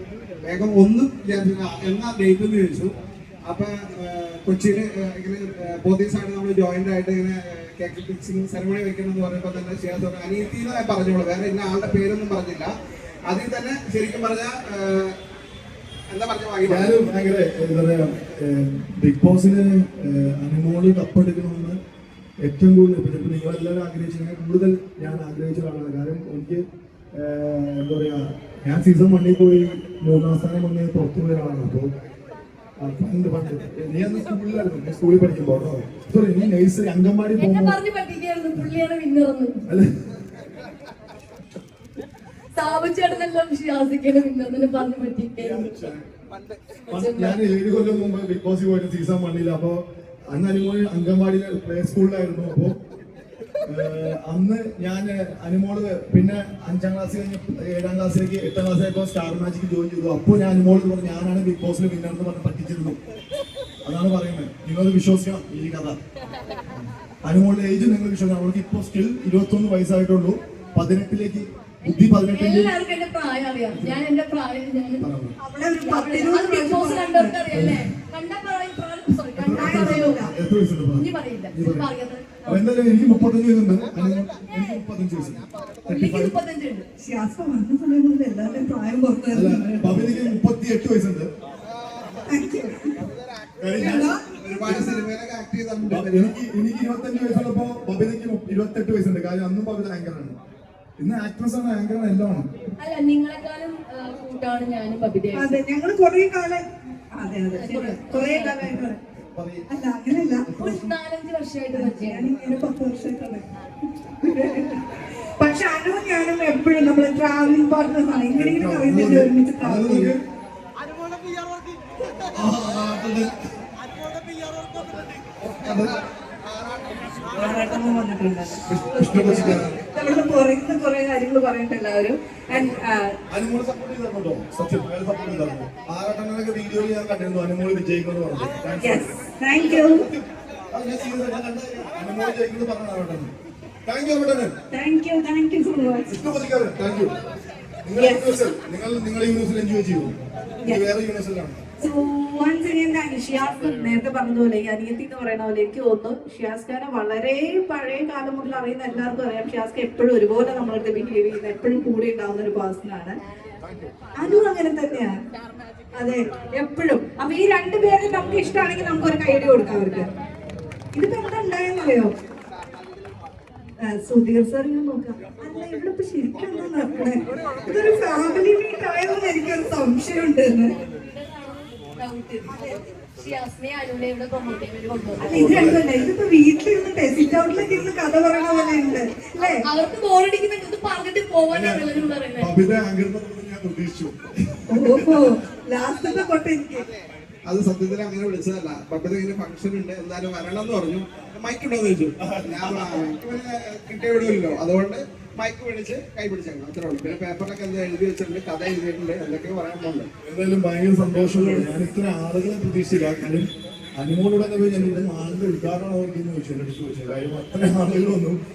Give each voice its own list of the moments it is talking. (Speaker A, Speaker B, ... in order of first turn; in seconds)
Speaker A: 0.4-2.9, 3.5-12.7, 13.3-15.2, 16.1-17.1, 46.3-46.8, 83.9-84.4, 85.5-85.9, 91.8-96.3, 126.5-127.8, 195.8-210.1
Speaker B: 16.6-21.8, 22.4-26.6, 27.1-31.9, 32.8-37.8, 39.7-40.0, 45.4-46.1, 46.9-52.8, 53.6-63.0, 63.9-66.0, 66.7-72.7, 73.7-74.0, 75.0-75.4, 77.5-77.9, 79.4-81.9, 82.5-86.4, 89.3-91.3, 93.6-94.2, 95.9-100.4, 101.0-102.5, 109.3-109.7, 110.3-110.9, 118.3-120.2, 122.3-123.3, 125.4-126.0, 128.7-129.8, 133.3-143.3, 143.9-144.5, 146.1-147.2, 147.8-150.2, 150.7-151.6, 185.2-185.8, 191.5-191.9, 192.4-195.4, 202.2-203.1, 210.2-218.4
Speaker C: 37.4-39.7, 42.5-45.6, 46.9-47.4, 72.2-75.0, 75.8-80.2, 81.0-82.6, 84.5-84.8, 85.9-86.9, 102.8-105.6, 107.5-108.7, 110.6-112.3, 180.7-182.5, 183.2-185.8, 189.4-192.5
Speaker D: 75.4-77.4, 79.5-80.3, 87.0-90.0, 92.3-93.0, 93.8-95.0, 105.3-109.0, 109.7-110.5, 111.7-113.4, 114.2-114.9, 115.4-120.1, 127.3-133.2, 138.8-140.1, 144.7-146.1, 148.0-148.2, 151.8-163.2, 164.2-165.2, 166.0-170.1, 170.9-172.1, 173.9-180.8, 185.2-189.6, 194.7-196.9, 211.4-211.7